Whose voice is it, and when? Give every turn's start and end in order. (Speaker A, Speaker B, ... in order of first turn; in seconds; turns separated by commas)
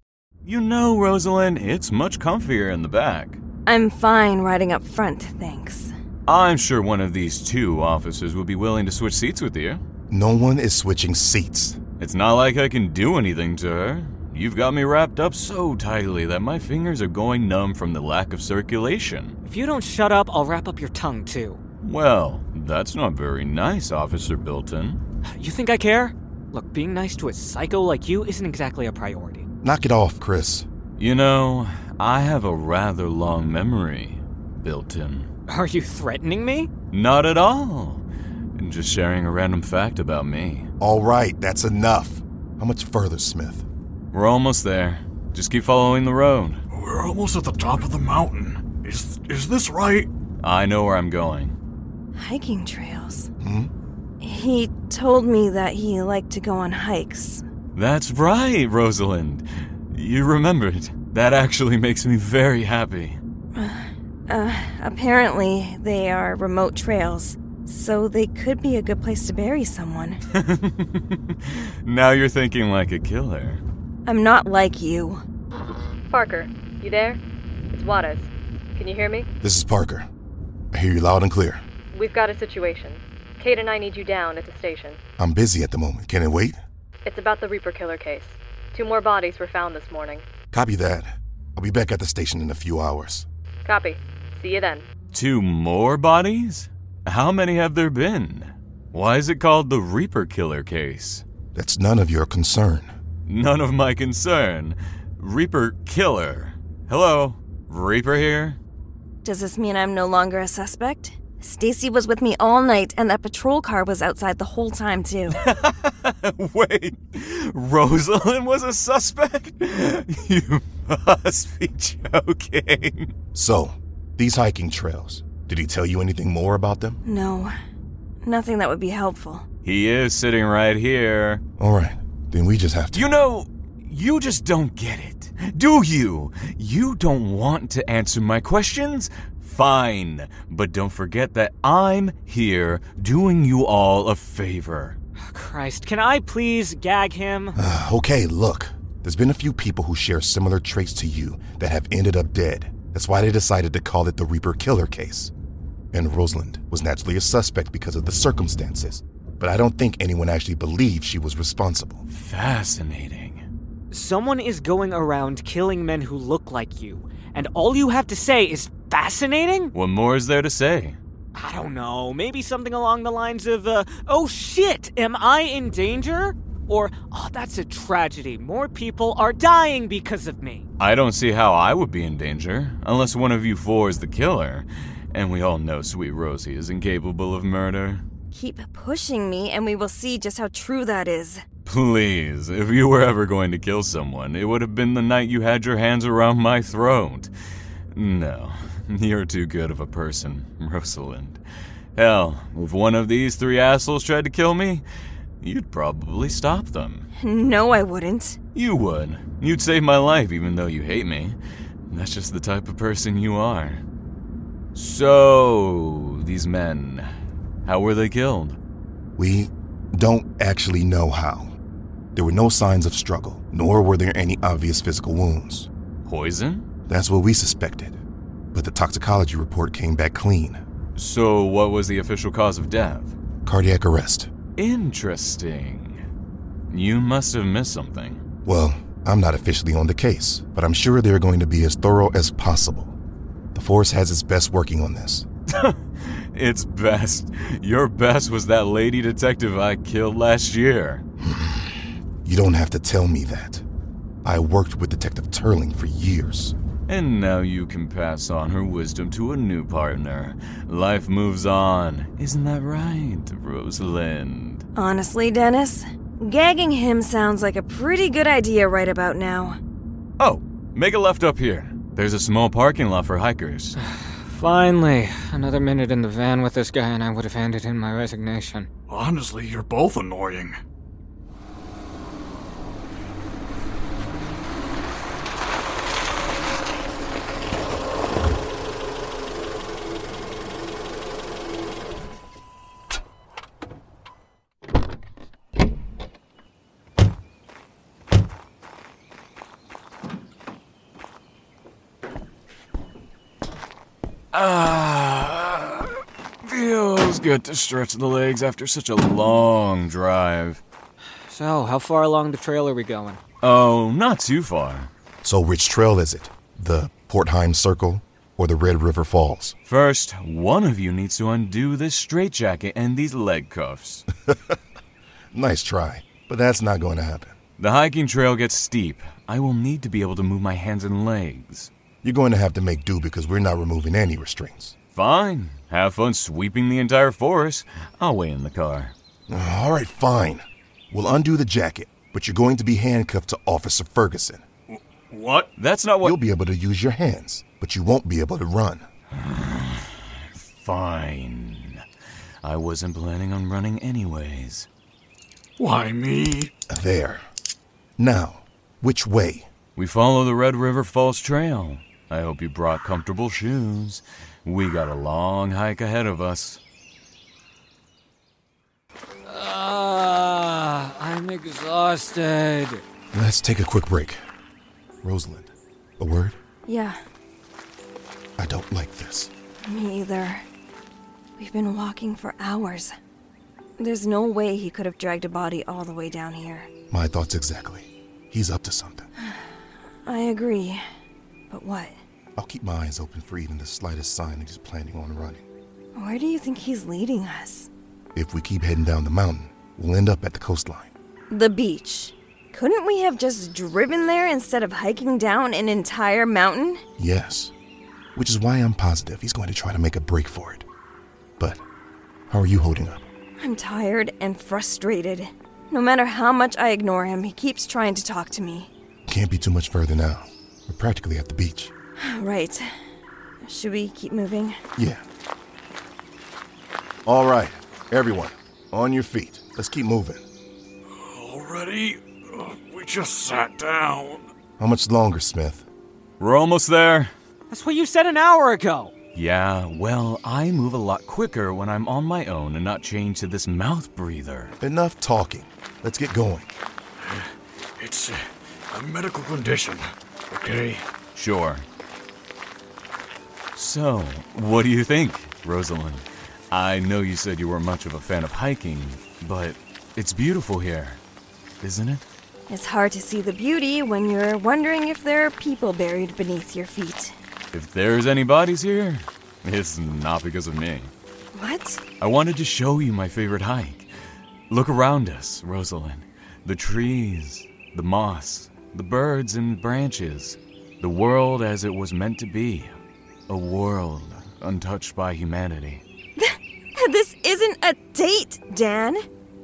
Speaker A: 0.4-3.4, Speaker B: 3.6-5.9, Speaker A: 6.3-9.8, Speaker C: 10.1-11.8, Speaker A: 12.0-19.3, Speaker D: 19.4-21.6, Speaker A: 21.8-25.0, Speaker D: 25.3-29.4, Speaker C: 29.6-30.7, Speaker A: 31.0-35.3, Speaker D: 35.5-36.7, Speaker A: 36.9-38.0, Speaker A: 38.5-40.7, Speaker C: 40.8-43.6, Speaker A: 44.1-46.6, Speaker E: 46.7-50.1, Speaker A: 50.4-51.5, Speaker B: 52.1-53.3, Speaker C: 53.4-53.7, Speaker B: 54.2-57.4, Speaker A: 57.7-63.2, Speaker B: 63.5-70.2, Speaker A: 70.3-73.6, Speaker B: 74.0-75.2, Speaker F: 76.1-77.2, Speaker F: 77.7-79.3, Speaker C: 79.4-80.1, Speaker C: 80.7-81.6, Speaker F: 81.9-85.0, Speaker C: 85.2-86.6, Speaker F: 87.0-90.2, Speaker C: 90.5-93.3, Speaker F: 93.6-94.8, Speaker A: 95.1-101.2, Speaker C: 101.5-102.9, Speaker A: 103.3-108.6, Speaker B: 109.2-115.4, Speaker A: 115.4-123.1, Speaker C: 123.3-127.0, Speaker B: 127.0-127.5, Speaker B: 128.2-129.4, Speaker A: 129.6-131.4, Speaker C: 131.6-133.1, Speaker A: 132.9-145.0, Speaker D: 145.2-147.6, Speaker C: 147.6-155.3, Speaker C: 155.9-162.0, Speaker A: 162.1-163.4, Speaker D: 163.9-169.7, Speaker A: 169.7-171.0, Speaker D: 171.3-180.6, Speaker A: 180.8-188.0, Speaker B: 188.3-191.4, Speaker A: 191.6-197.3, Speaker A: 197.9-201.4, Speaker A: 201.9-204.8, Speaker A: 205.4-207.1, Speaker B: 207.2-208.4, Speaker A: 208.5-211.4, Speaker A: 211.9-213.8, Speaker A: 214.7-217.1, Speaker A: 217.6-218.6, Speaker C: 219.2-221.6, Speaker C: 222.1-225.7, Speaker A: 226.0-226.7, Speaker C: 226.9-228.0, Speaker C: 228.5-230.6, Speaker A: 230.9-233.2, Speaker C: 233.4-234.3, Speaker A: 234.6-236.0, Speaker A: 236.7-238.2, Speaker C: 238.4-242.9, Speaker C: 243.5-245.3, Speaker A: 245.5-251.0, Speaker C: 251.2-253.6, Speaker C: 254.2-256.5, Speaker A: 256.9-264.6, Speaker B: 264.8-269.6, Speaker A: 270.2-273.7, Speaker D: 273.8-278.7, Speaker E: 278.9-280.6, Speaker A: 304.3-310.6, Speaker D: 311.3-313.2, Speaker A: 313.4-314.9, Speaker C: 315.2-319.5, Speaker A: 319.7-324.1, Speaker C: 324.3-324.6, Speaker C: 325.3-327.4, Speaker A: 327.6-331.7, Speaker C: 332.0-334.7, Speaker A: 334.9-338.9, Speaker C: 339.3-344.4, Speaker E: 344.7-345.5, Speaker A: 345.6-346.2, Speaker C: 346.0-348.9, Speaker A: 349.1-351.8, Speaker A: 352.4-354.7, Speaker E: 355.6-356.5, Speaker C: 356.7-357.3, Speaker C: 358.0-359.5, Speaker A: 359.8-366.6, Speaker D: 369.2-372.8, Speaker C: 373.1-374.2, Speaker C: 375.0-376.4, Speaker B: 376.7-377.0, Speaker C: 378.4-379.3, Speaker B: 379.6-380.4, Speaker B: 381.4-382.9, Speaker B: 383.8-386.7, Speaker C: 386.9-389.1, Speaker B: 389.2-389.5, Speaker B: 390.1-390.8, Speaker B: 391.5-392.0, Speaker C: 392.4-395.4, Speaker B: 395.9-397.7, Speaker C: 398.1-400.9, Speaker B: 401.3-406.8, Speaker C: 407.0-407.5, Speaker C: 408.1-410.6, Speaker C: 411.4-411.6, Speaker C: 412.3-413.1, Speaker B: 413.4-418.7, Speaker C: 419.1-421.7, Speaker B: 422.0-422.6, Speaker B: 423.4-424.6, Speaker C: 424.8-425.0, Speaker C: 427.1-430.2, Speaker E: 430.9-434.3, Speaker C: 434.6-435.6, Speaker A: 436.2-437.1, Speaker D: 437.5-438.9, Speaker A: 439.1-444.5, Speaker C: 444.6-446.5, Speaker E: 447.0-450.9, Speaker A: 451.1-451.6, Speaker A: 453.5-461.0, Speaker A: 461.6-462.0, Speaker B: 462.5-467.1, Speaker A: 467.5-470.9, Speaker B: 471.3-471.8, Speaker A: 472.0-473.9, Speaker A: 474.5-482.7, Speaker A: 483.3-485.8, Speaker B: 486.2-489.0